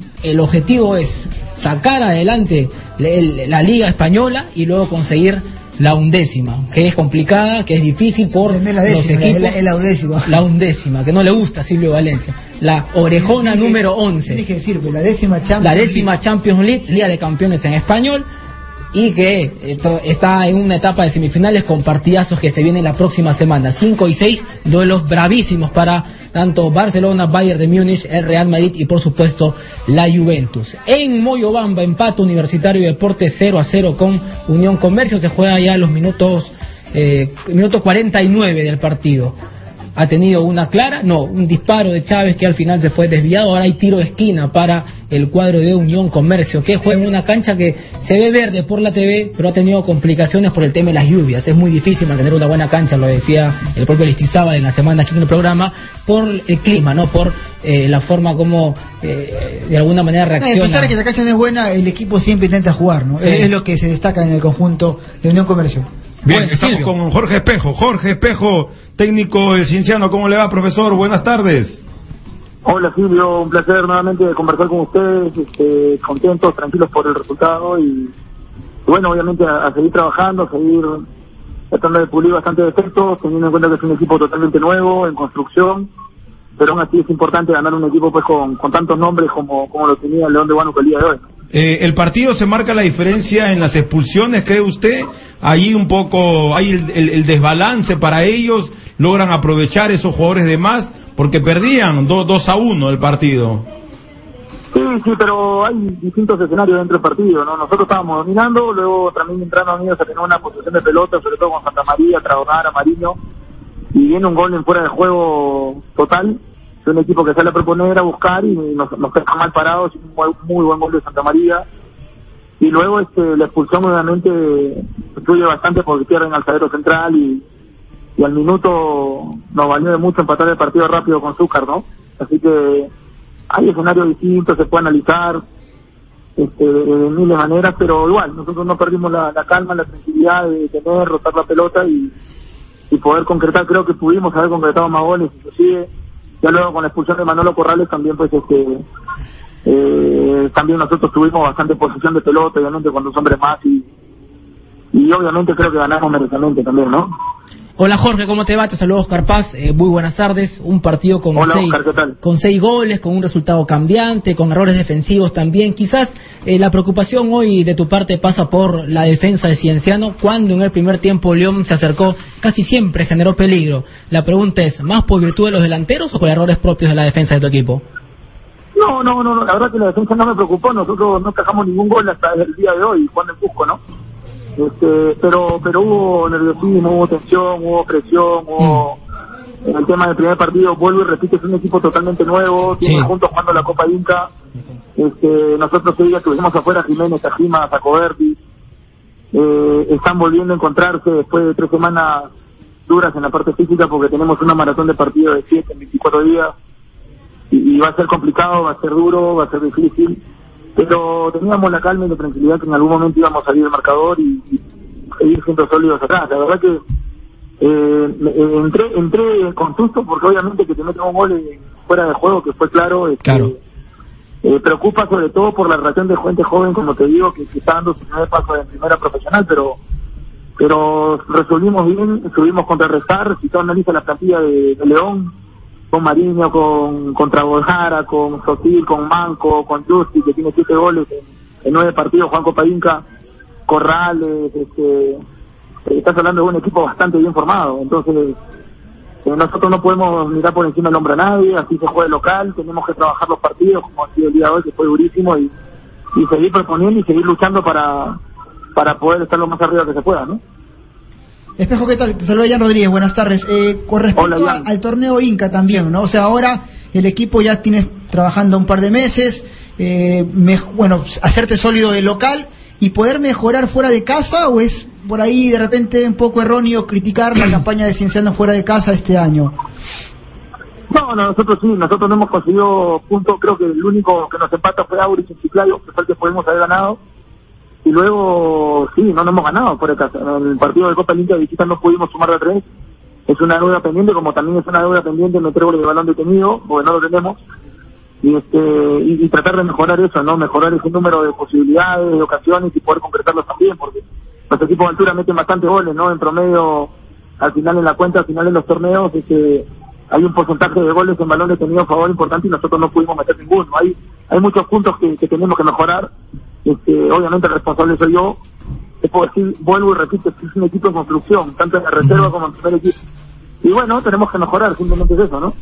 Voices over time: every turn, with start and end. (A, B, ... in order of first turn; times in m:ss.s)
0:00.2-0:09.6 A
0:08.5-0:10.4 B
0:10.3-0:14.4 A
0:13.1-0:16.1 B
0:15.6-0:18.2 A
0:18.9-0:39.4 A
0:40.0-1:01.0 A
1:00.4-1:05.9 B
1:03.2-1:03.5 A
1:06.3-1:06.9 A
1:06.3-1:11.8 C
1:12.6-1:18.1 D
1:18.9-1:21.0 D
1:21.7-1:25.9 D
1:26.6-1:31.2 D
1:31.5-1:43.7 C
1:44.7-1:53.2 D
1:53.9-2:01.6 D
2:02.6-2:07.4 D
2:08.2-2:12.9 D
2:13.5-2:15.4 D
2:16.4-2:22.1 D
2:22.9-2:25.9 D
2:26.4-2:28.8 D
2:29.6-2:33.9 D
2:34.9-2:37.1 D
2:37.8-2:57.8 A
2:41.4-2:42.2 D
2:58.8-3:03.8 D
3:04.6-3:09.0 D
3:08.6-3:08.8 A
3:09.6-3:14.3 D
3:12.8-3:13.1 A
3:15.0-3:18.4 D
3:19.3-3:22.3 D
3:22.9-3:26.5 D
3:27.5-3:30.2 D
3:30.8-3:34.6 D
3:35.2-3:36.8 D
3:37.6-3:43.6 D
3:43.2-3:43.5 A
3:44.4-3:49.8 D
3:50.6-3:55.3 D
3:55.9-4:03.0 D
4:03.7-4:05.2 D
4:05.9-4:08.4 D
4:09.2-4:15.5 D
4:16.1-4:18.2 D
4:18.8-4:20.4 D
4:21.6-4:39.5 B
4:24.2-4:24.6 D
4:40.9-4:47.0 D
4:47.8-4:52.6 D
4:53.3-4:57.4 D
4:58.2-5:16.1 D
5:16.6-5:18.4 D
5:19.0-5:23.0 D
5:23.6-5:25.5 D